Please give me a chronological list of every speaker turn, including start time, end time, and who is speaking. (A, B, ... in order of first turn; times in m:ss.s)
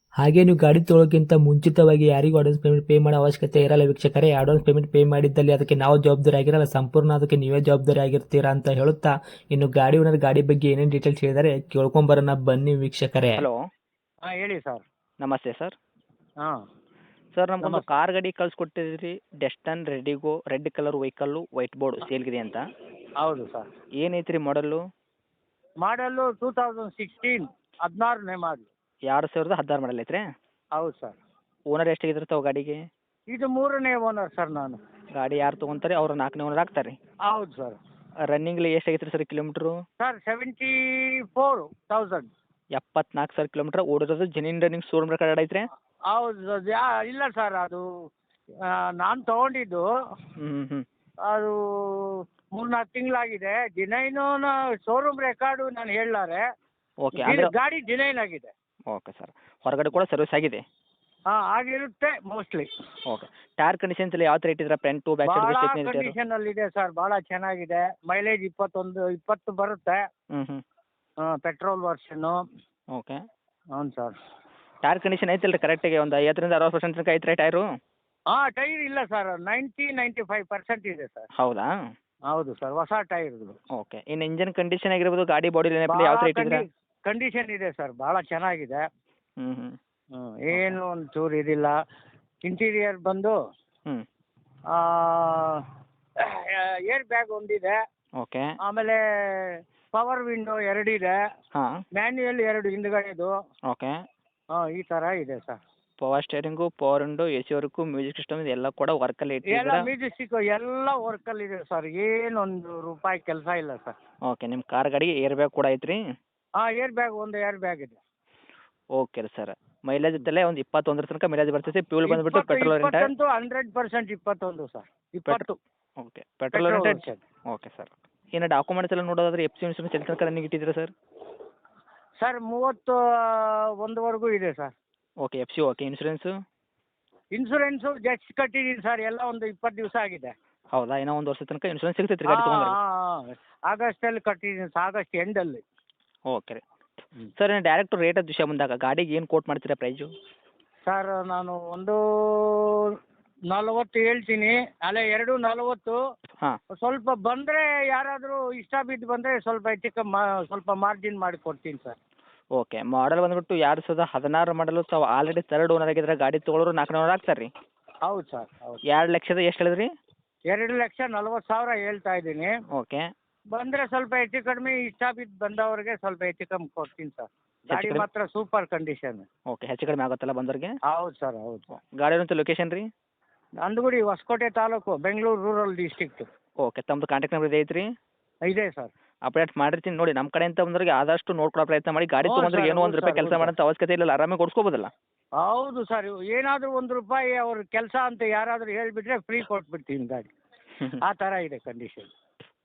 0:00.2-0:13.4 A
0:14.3-0:14.8 B
0:15.2-0:15.8 C
0:17.3-0:22.6 C
0:23.2-0:23.7 B
0:24.0-0:24.8 C
0:25.8-0:28.7 B
0:29.1-0:30.2 C
0:30.8-0:31.2 B
0:31.7-0:32.8 C
0:33.3-0:34.8 B
0:35.2-0:37.0 C
0:37.3-0:37.8 B
0:38.3-0:39.8 C
0:40.0-0:40.8 B
0:41.3-0:42.3 B
0:42.8-0:45.7 C
0:46.1-0:47.8 B
0:48.7-0:49.9 B
0:50.4-0:50.8 C
0:51.3-0:56.4 B
0:57.0-0:57.5 C
0:57.2-0:58.5 B
0:58.9-1:00.6 C
1:01.3-1:02.7 B
1:03.1-1:06.2 C
1:05.2-1:10.0 B
1:10.3-1:10.6 C
1:11.2-1:12.4 B
1:13.8-1:14.2 B
1:14.8-1:17.6 C
1:18.3-1:21.3 B
1:21.4-1:21.7 C
1:22.3-1:23.6 B
1:23.8-1:26.6 C
1:25.9-1:28.9 B
1:29.4-1:29.8 C
1:30.1-1:31.7 B
1:32.4-1:33.3 B
1:34.7-1:35.6 B
1:36.2-1:37.8 B
1:38.2-1:38.5 C
1:38.6-1:41.2 B
1:42.0-1:43.3 B
1:43.7-1:43.9 C
1:44.5-1:45.6 B
1:46.0-1:49.9 C
1:49.5-1:54.0 B
1:54.3-1:56.0 C
1:56.6-1:58.0 B
1:59.0-2:03.1 C
2:02.1-2:05.6 B
2:06.0-2:10.9 C
2:06.5-2:07.2 B
2:12.2-2:14.7 B
2:15.2-2:16.3 C
2:17.4-2:20.3 B
2:20.7-2:22.8 C
2:22.3-2:25.6 B
2:26.3-2:26.6 C
2:27.4-2:30.1 C
2:30.9-2:33.0 B
2:33.5-2:36.0 B
2:36.8-2:42.0 B
2:42.6-2:47.5 C
2:48.1-2:48.8 B
2:48.9-2:49.9 C
2:50.5-2:52.5 B
2:52.7-2:53.0 C
2:53.5-2:59.3 B
2:57.7-2:58.1 C
2:59.5-3:00.7 C
3:00.9-3:01.7 B
3:01.7-3:02.9 C
3:03.6-3:06.3 B
3:06.6-3:07.8 C
3:08.5-3:08.9 B
3:09.3-3:14.9 C
3:12.2-3:13.5 B
3:15.4-3:20.3 B
3:21.0-3:22.1 B